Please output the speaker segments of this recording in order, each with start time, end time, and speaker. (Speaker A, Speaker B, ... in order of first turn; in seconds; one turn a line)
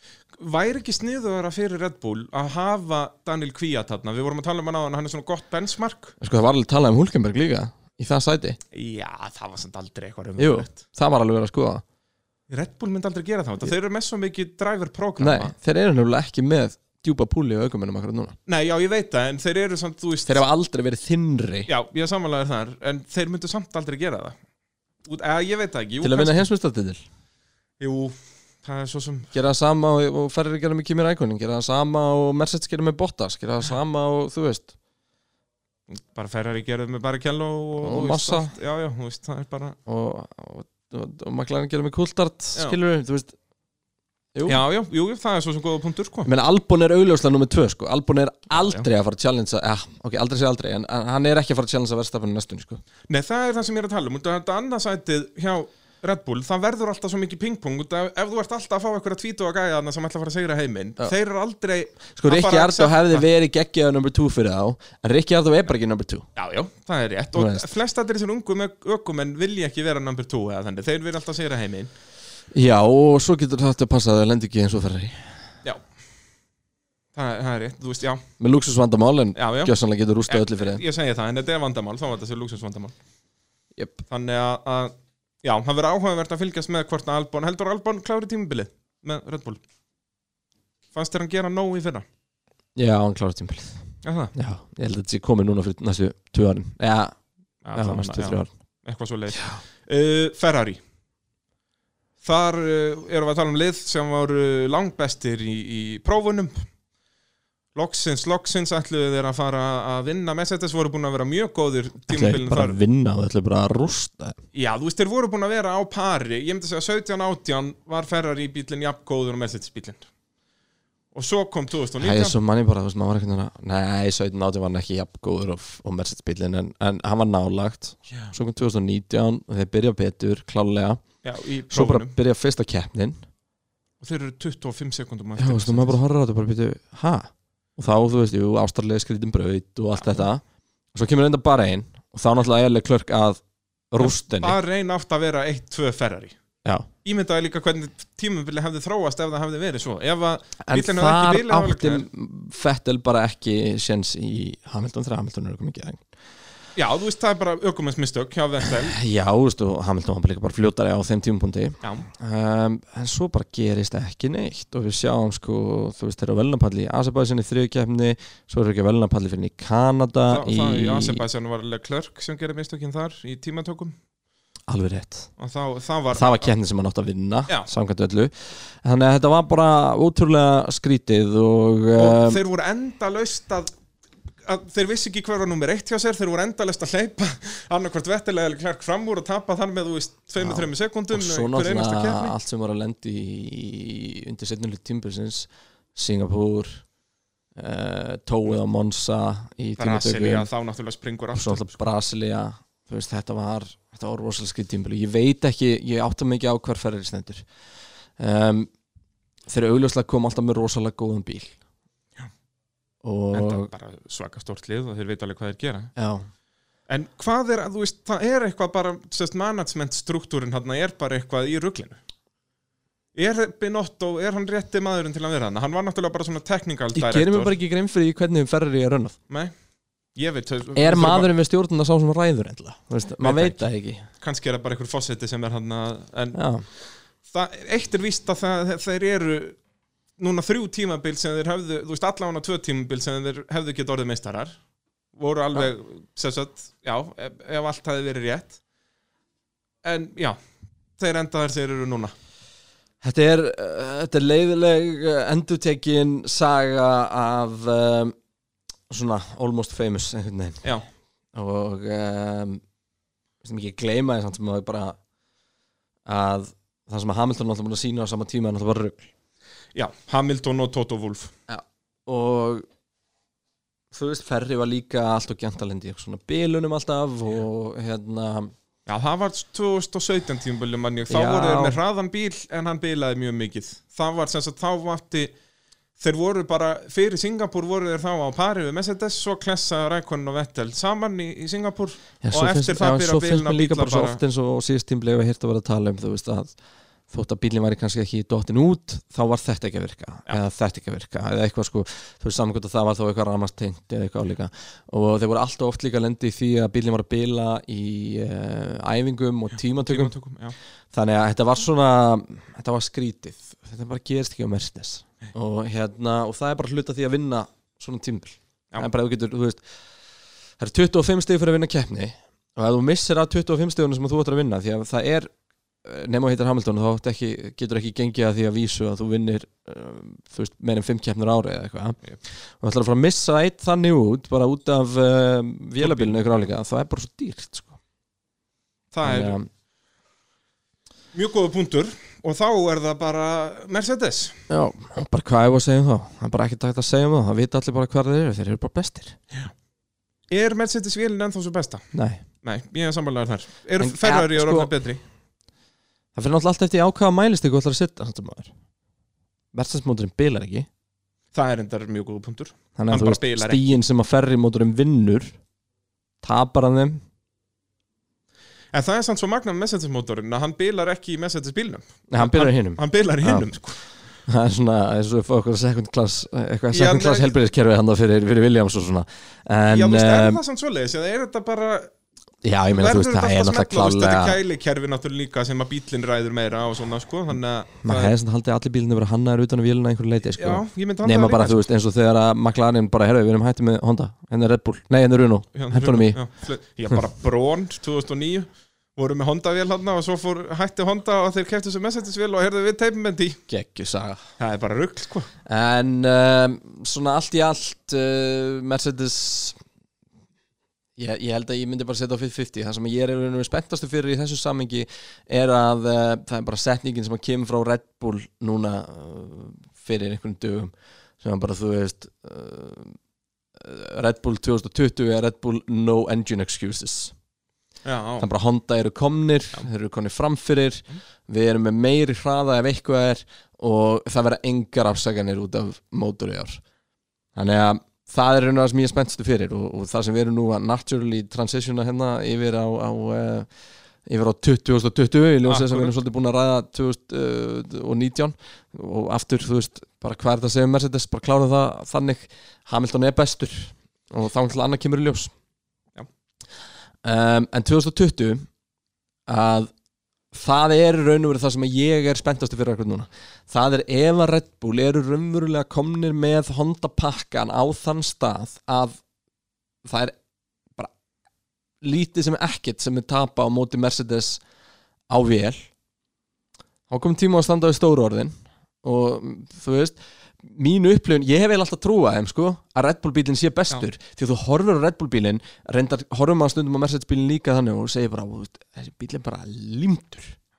Speaker A: 0.4-6.2
Speaker B: 6.2-8.6
Speaker A: 8.7-10.8
Speaker B: 10.4-11.8
Speaker A: 12.5-15.5
Speaker B: 15.2-18.4
Speaker A: 18.5-20.4
Speaker B: 20.3-21.7
Speaker A: 21.7-24.4
Speaker A: 25.1-26.5
Speaker B: 26.0-27.0
Speaker A: 27.8-29.3
Speaker B: 29.3-34.7
Speaker A: 35.9-39.8
Speaker B: 37.8-38.5
Speaker B: 39.9-43.3
Speaker B: 44.4-44.6
Speaker A: 44.5-46.3
Speaker B: 46.2-52.8
Speaker A: 48.5-48.9
Speaker A: 53.1-63.2
Speaker B: 62.2-66.3
Speaker A: 66.4-71.9
Speaker B: 67.3-67.7
Speaker B: 72.5-75.3
Speaker A: 77.2-78.2
Speaker B: 78.4-80.8
Speaker A: 79.4-79.7
Speaker A: 80.3-83.0
Speaker B: 83.8-84.0
Speaker A: 84.1-89.6
Speaker A: 90.9-92.1
Speaker B: 92.8-93.8
Speaker A: 94.0-94.3
Speaker B: 94.3-97.2
Speaker A: 97.7-100.8
Speaker B: 97.8-98.5
Speaker B: 99.3-99.6
Speaker A: 102.2-106.7
Speaker A: 107.8-112.8
Speaker B: 112.1-114.4
Speaker A: 114.5-120.1
Speaker A: 121.1-122.4
Speaker B: 122.0-131.0
Speaker A: 131.2-132.2
Speaker B: 131.7-133.2
Speaker A: 134.0-136.0
Speaker B: 135.4-140.4
Speaker A: 140.0-140.3
Speaker B: 140.9-144.6
Speaker A: 144.0-146.4
Speaker A: 147.0-152.1
Speaker B: 150.6-156.0
Speaker A: 156.8-159.0
Speaker B: 158.6-171.2
Speaker A: 161.8-162.1
Speaker A: 170.3-173.9
Speaker B: 174.7-175.3
Speaker A: 175.4-176.5
Speaker B: 176.1-182.4
Speaker A: 181.9-183.7
Speaker A: 184.4-192.3
Speaker B: 190.4-196.8
Speaker B: 197.6-200.5
Speaker A: 199.8-201.8
Speaker B: 201.3-207.4
Speaker B: 208.2-208.7
Speaker B: 209.5-211.6
Speaker B: 213.0-213.7
Speaker A: 213.3-215.9
Speaker B: 216.0-216.2
Speaker A: 216.9-222.0
Speaker A: 223.2-227.5
Speaker B: 226.9-229.2
Speaker A: 230.2-231.3
Speaker B: 230.8-234.0
Speaker A: 233.2-233.7
Speaker A: 234.2-236.4
Speaker B: 236.3-236.7
Speaker A: 237.3-239.6
Speaker A: 240.2-244.6
Speaker A: 245.2-248.6
Speaker A: 249.8-250.4
Speaker A: 251.0-252.1
Speaker B: 253.0-258.1
Speaker B: 258.9-260.7
Speaker B: 261.3-262.6
Speaker B: 263.4-265.0
Speaker B: 266.1-269.1
Speaker A: 269.8-271.3
Speaker B: 271.5-272.6
Speaker B: 273.9-278.5
Speaker A: 278.9-285.4
Speaker B: 281.1-281.8
Speaker A: 286.0-294.2
Speaker B: 292.2-296.5
Speaker B: 297.1-310.1
Speaker A: 309.9-310.6
Speaker B: 310.9-319.6
Speaker B: 320.6-325.3
Speaker B: 325.8-332.0
Speaker B: 332.6-337.8
Speaker A: 335.8-336.2
Speaker A: 338.9-339.4
Speaker B: 339.0-339.5
Speaker A: 341.1-344.4
Speaker B: 344.5-349.2
Speaker A: 350.3-351.9
Speaker B: 351.9-352.2
Speaker A: 352.4-355.0
Speaker B: 353.8-354.7
Speaker B: 356.1-358.5
Speaker B: 359.5-360.7
Speaker A: 361.3-363.8
Speaker B: 362.8-365.4
Speaker B: 366.2-367.0
Speaker A: 368.7-373.8
Speaker B: 372.1-373.5
Speaker B: 374.3-380.4
Speaker A: 376.7-377.3
Speaker A: 379.7-381.9
Speaker B: 382.4-384.4
Speaker A: 382.7-388.1
Speaker B: 387.8-396.2
Speaker A: 390.4-391.6
Speaker A: 395.6-403.4
Speaker B: 403.5-404.2
Speaker A: 404.4-405.3
Speaker B: 405.5-409.6
Speaker B: 411.0-422.9
Speaker B: 423.6-427.1
Speaker A: 427.9-428.3
Speaker B: 428.2-436.6
Speaker B: 437.4-443.5
Speaker B: 444.1-455.3
Speaker A: 445.4-445.9
Speaker B: 457.0-458.5
Speaker B: 459.3-459.7
Speaker B: 460.3-469.0
Speaker B: 469.8-470.1
Speaker B: 471.8-474.4
Speaker B: 475.1-475.7
Speaker B: 476.9-490.4